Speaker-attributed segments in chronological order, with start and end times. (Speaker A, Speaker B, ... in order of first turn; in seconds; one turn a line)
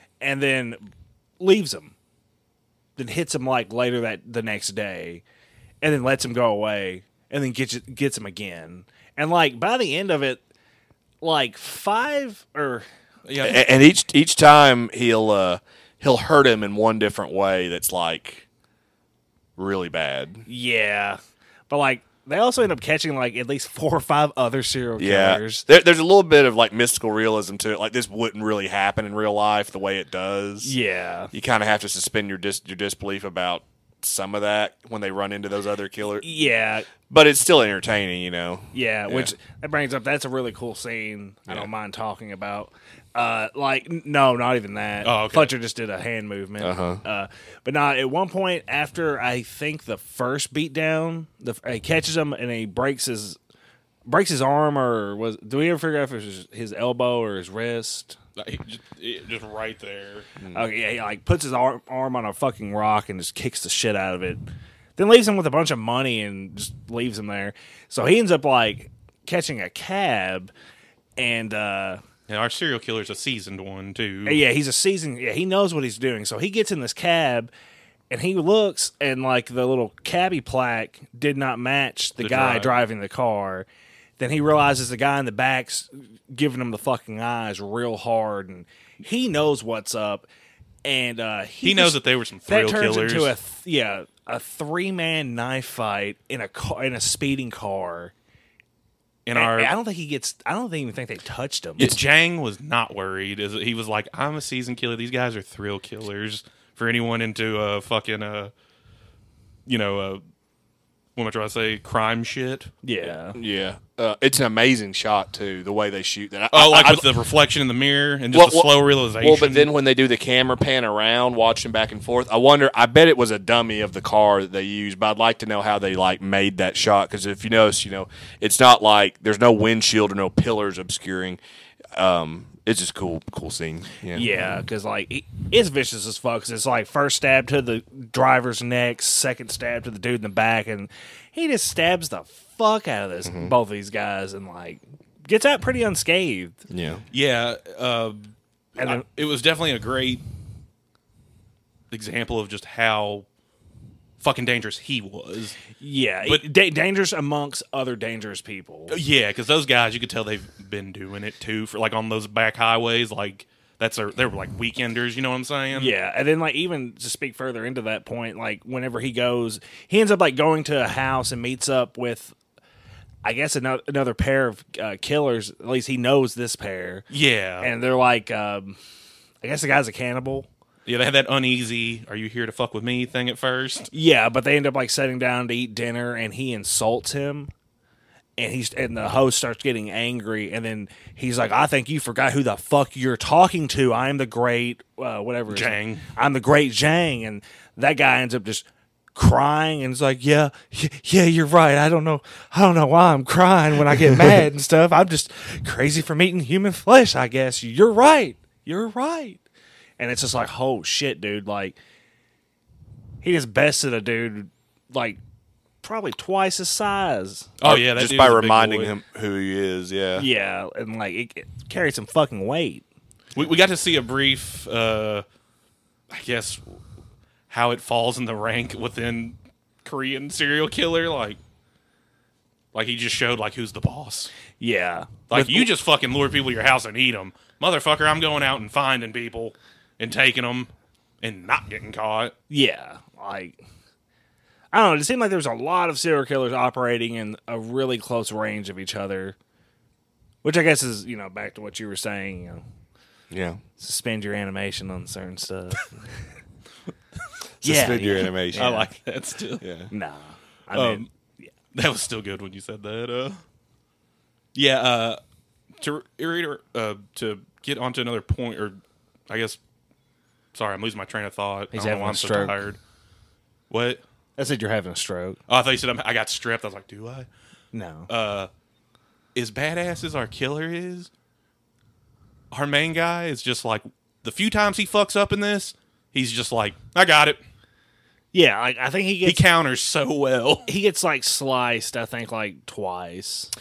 Speaker A: 0.2-0.8
Speaker A: 1.4-1.9
Speaker A: 3.0-5.2
Speaker A: 5.8-10.4
Speaker A: 11.2-12.8
Speaker B: 13.2-13.6
Speaker C: 13.4-18.4
Speaker C: 19.6-20.4
Speaker A: 20.4-25.6
Speaker C: 25.0-30.7
Speaker A: 30.6-31.3
Speaker C: 31.3-36.3
Speaker A: 36.2-36.9
Speaker C: 37.1-39.3
Speaker A: 38.7-53.4
Speaker B: 45.0-45.5
Speaker C: 46.6-47.0
Speaker A: 54.1-58.2
Speaker B: 58.4-60.3
Speaker C: 60.4-60.6
Speaker A: 60.5-64.4
Speaker A: 65.0-70.5
Speaker A: 71.2-72.0
Speaker B: 72.3-74.4
Speaker A: 74.2-77.5
Speaker A: 78.1-83.7
Speaker B: 82.2-82.8
Speaker A: 84.2-90.2
Speaker A: 90.8-98.1
Speaker B: 91.6-93.3
Speaker B: 99.2-99.7
Speaker A: 99.3-101.9
Speaker B: 101.8-108.5
Speaker B: 109.7-110.2
Speaker B: 111.2-112.7
Speaker A: 112.8-113.4
Speaker C: 113.3-117.1
Speaker B: 116.5-119.7
Speaker C: 118.3-131.4
Speaker C: 131.9-134.3
Speaker A: 134.1-146.6
Speaker C: 143.2-143.5
Speaker C: 146.7-147.0
Speaker B: 147.1-150.2
Speaker A: 148.8-149.0
Speaker B: 151.9-153.2
Speaker B: 154.2-155.6
Speaker A: 155.8-159.0
Speaker B: 158.9-165.9
Speaker A: 165.7-172.3
Speaker A: 173.2-177.1
Speaker B: 177.1-177.7
Speaker A: 177.6-178.8
Speaker A: 179.4-180.5
Speaker B: 180.8-183.9
Speaker A: 183.9-187.5
Speaker A: 188.4-209.4
Speaker B: 195.5-196.1
Speaker A: 210.0-211.8
Speaker A: 213.2-215.2
Speaker A: 215.8-217.5
Speaker B: 217.6-218.9
Speaker C: 217.6-220.3
Speaker A: 220.2-222.8
Speaker B: 223.3-225.2
Speaker B: 226.1-226.8
Speaker B: 227.5-231.4
Speaker B: 232.7-234.3
Speaker A: 234.6-235.7
Speaker B: 235.3-240.7
Speaker B: 241.2-242.3
Speaker A: 242.5-243.6
Speaker A: 244.7-249.3
Speaker A: 250.4-252.6
Speaker C: 253.3-253.6
Speaker A: 253.8-255.9
Speaker C: 257.6-258.8
Speaker A: 257.6-258.9
Speaker B: 258.5-259.6
Speaker C: 259.6-259.9
Speaker A: 259.9-261.4
Speaker B: 260.7-261.1
Speaker B: 261.7-263.4
Speaker B: 264.5-265.2
Speaker B: 265.8-268.8
Speaker B: 269.3-269.6
Speaker B: 270.5-272.8
Speaker A: 271.7-272.6
Speaker B: 273.7-274.0
Speaker A: 274.4-275.4
Speaker B: 275.5-277.3
Speaker A: 277.7-278.1
Speaker B: 278.1-278.5
Speaker B: 279.3-281.1
Speaker B: 282.5-287.4
Speaker A: 288.3-289.4
Speaker B: 289.2-290.7
Speaker A: 290.7-293.5